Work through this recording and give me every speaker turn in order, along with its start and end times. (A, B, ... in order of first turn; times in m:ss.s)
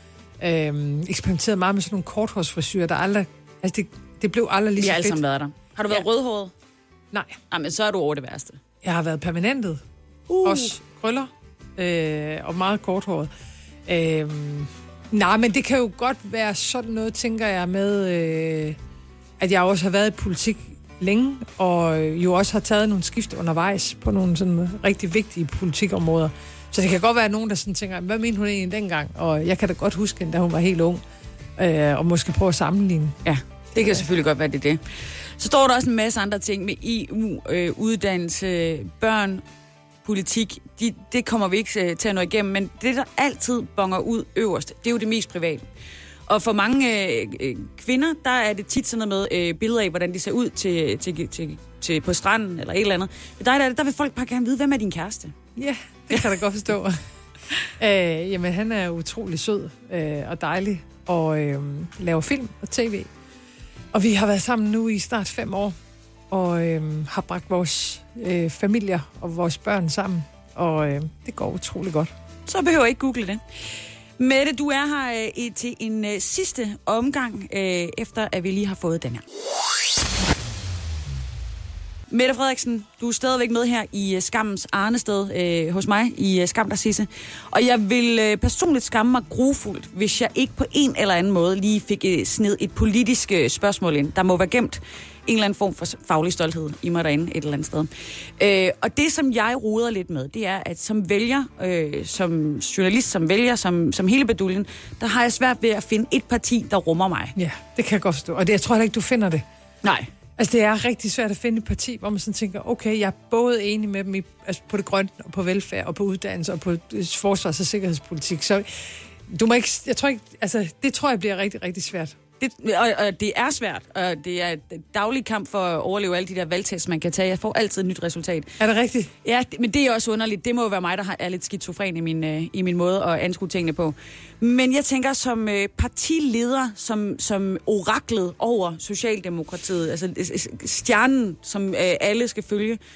0:00.4-0:05.2 A
0:04.8-0:06.5 B
0:07.5-0:08.6 B
0:08.8-0:09.8 A
0:10.3-0:10.7 B
0:10.4-0:13.3 A
0:13.8-0:18.8 A
0:19.4-0:31.0 A
0:31.6-0:33.2 A
0:33.2-0:39.4 B
0:40.0-0:45.6 B
0:46.3-0:55.3 B
0:55.6-0:57.0 A
0:57.8-1:03.1 A
1:03.9-1:05.7 A
1:06.3-1:12.1 A
1:12.4-1:13.4 B
1:14.2-1:19.2 B
1:22.1-1:47.3 B
1:47.4-1:49.4 A
1:49.8-1:50.1 B
1:50.4-1:58.7 A
1:59.3-2:02.2 A
2:02.4-2:08.5 B
2:08.6-2:09.1 A
2:09.2-2:22.8 B